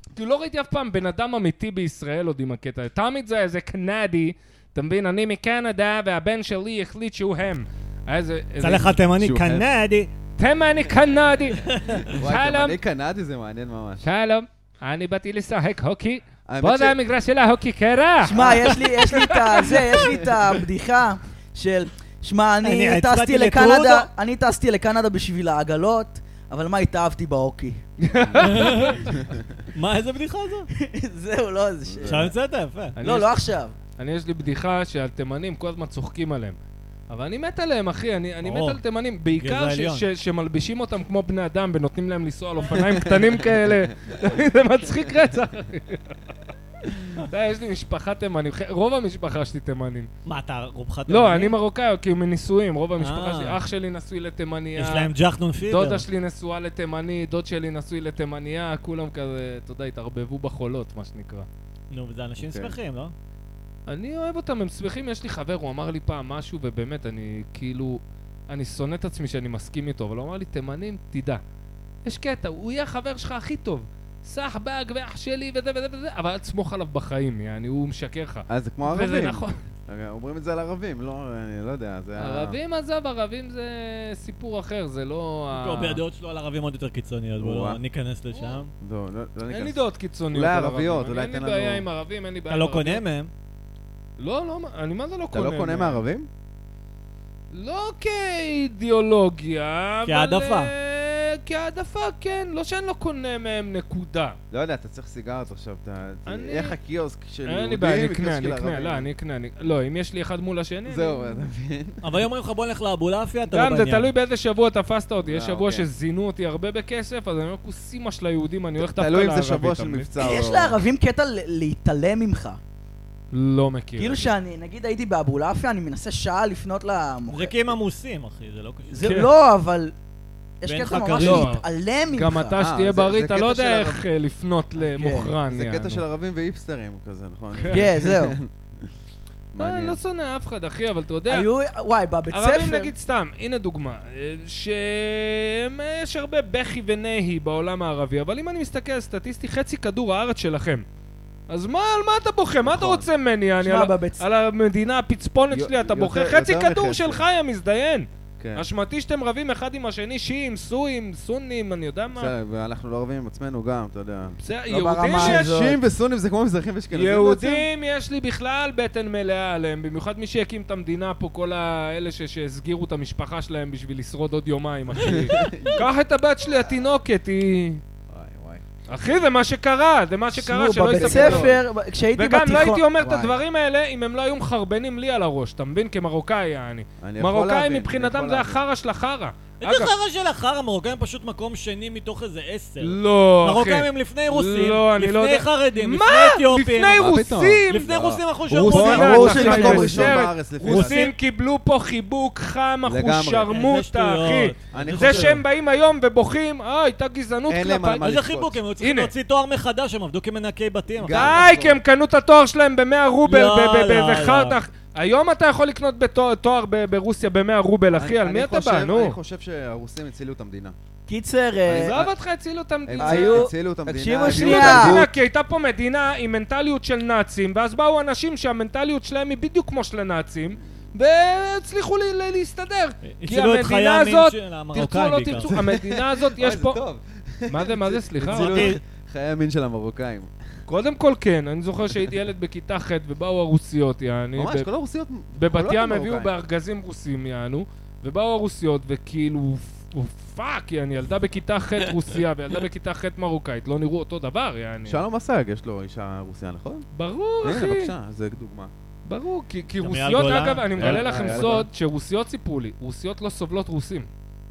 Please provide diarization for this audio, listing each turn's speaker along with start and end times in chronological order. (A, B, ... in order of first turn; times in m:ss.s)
0:00.2-0:09.0 A
0:08.6-0:10.1 B
0:09.2-0:09.7 C
0:10.4-0:12.8 A
0:11.7-0:12.1 B
0:12.0-0:14.0 C
0:14.0-0:20.0 A
0:16.5-0:17.0 C
0:18.2-0:27.8 D
0:18.3-0:19.1 C
0:22.6-0:24.1 B
0:28.0-0:29.1 A
0:28.4-0:29.1 B
0:29.1-0:29.4 C
0:29.7-0:30.7 B
0:30.8-0:32.3 D
0:31.9-0:32.3 C
0:32.0-0:33.0 B
0:33.0-0:33.3 A
0:33.0-0:33.7 D
0:34.0-0:36.6 A
0:37.1-0:46.3 A
0:38.4-0:38.8 B
0:39.4-0:40.1 B
0:42.7-0:43.7 C
0:47.2-0:50.1 A
0:50.3-0:51.6 B
0:51.1-0:55.1 A
0:53.0-0:53.6 B
0:54.8-0:56.0 B
0:55.7-1:01.5 A
1:01.9-1:03.1 B
1:02.4-1:02.8 C
1:03.9-1:11.4 A
1:12.0-1:19.6 A
1:18.5-1:22.6 C
1:22.2-1:26.0 A
1:25.5-1:28.7 B
1:27.4-1:27.8 C
1:28.3-1:28.6 A
1:28.8-1:29.8 C
1:29.5-1:33.0 A
1:30.3-1:31.9 C
1:32.5-1:33.3 B
1:34.2-1:36.0 A
1:35.3-1:36.3 C
1:37.5-1:44.4 A
1:40.1-1:40.7 B
1:44.5-1:49.1 C
1:46.3-1:46.8 A
1:47.5-1:51.3 A
1:50.9-1:52.0 C
1:52.0-1:54.1 B
1:53.5-2:00.1 A
1:55.3-1:55.9 C
1:58.8-2:00.8 C
2:00.2-2:02.6 D
2:03.3-2:04.3 A
2:04.0-2:07.6 D
2:07.3-2:09.3 B
2:08.9-2:09.9 D
2:09.0-2:09.3 A
2:10.6-2:12.6 D
2:10.6-2:11.5 B
2:11.2-2:16.0 A
2:12.6-2:14.0 C
2:14.8-2:15.3 D
2:15.5-2:18.5 C
2:17.5-2:17.9 A
2:17.7-2:18.4 D
2:19.5-2:20.0 C
2:19.6-2:21.5 A
2:21.3-2:22.9 D
2:22.3-2:30.8 A
2:31.5-2:42.3 A
2:32.6-2:33.1 C
2:33.6-2:34.2 D
2:35.5-2:37.2 C
2:38.4-2:38.6 C
2:42.2-2:44.4 C
2:44.4-2:45.5 A
2:44.7-2:45.8 D
2:45.1-2:47.7 C
2:46.9-2:57.8 A
2:55.0-2:55.9 C
2:58.1-2:58.7 C
2:58.9-3:01.6 A
3:00.4-3:03.4 D
3:00.9-3:01.6 C
3:02.1-3:09.9 A
3:07.0-3:08.6 C
3:09.6-3:17.1 B
3:12.8-3:17.9 A
3:17.0-3:21.1 C
3:17.7-3:19.9 B
3:18.5-3:28.1 A
3:18.7-3:20.2 D
3:20.6-3:21.1 B
3:22.9-3:23.5 C
3:23.5-3:25.4 B
3:24.7-3:25.4 C
3:27.5-3:28.6 C
3:28.0-3:31.4 B
3:28.8-3:29.1 A
3:31.0-3:31.8 C
3:31.1-3:39.2 A
3:33.2-3:34.6 B
3:37.9-3:40.7 C
3:41.1-3:42.0 D
3:41.6-3:42.2 C
3:41.8-3:43.5 A
3:42.9-3:45.1 C
3:43.0-3:45.0 D
3:44.3-3:56.8 A
3:53.0-3:55.5 B
3:55.5-4:00.3 C
3:57.5-3:58.8 A
3:58.3-3:58.8 B
4:00.7-4:04.7 A
4:04.4-4:06.3 C
4:05.4-4:15.0 A
4:14.9-4:16.9 C
4:16.9-4:17.9 A
4:17.4-4:18.7 C
4:19.1-4:24.1 A
4:19.8-4:21.7 B
4:20.8-4:21.7 C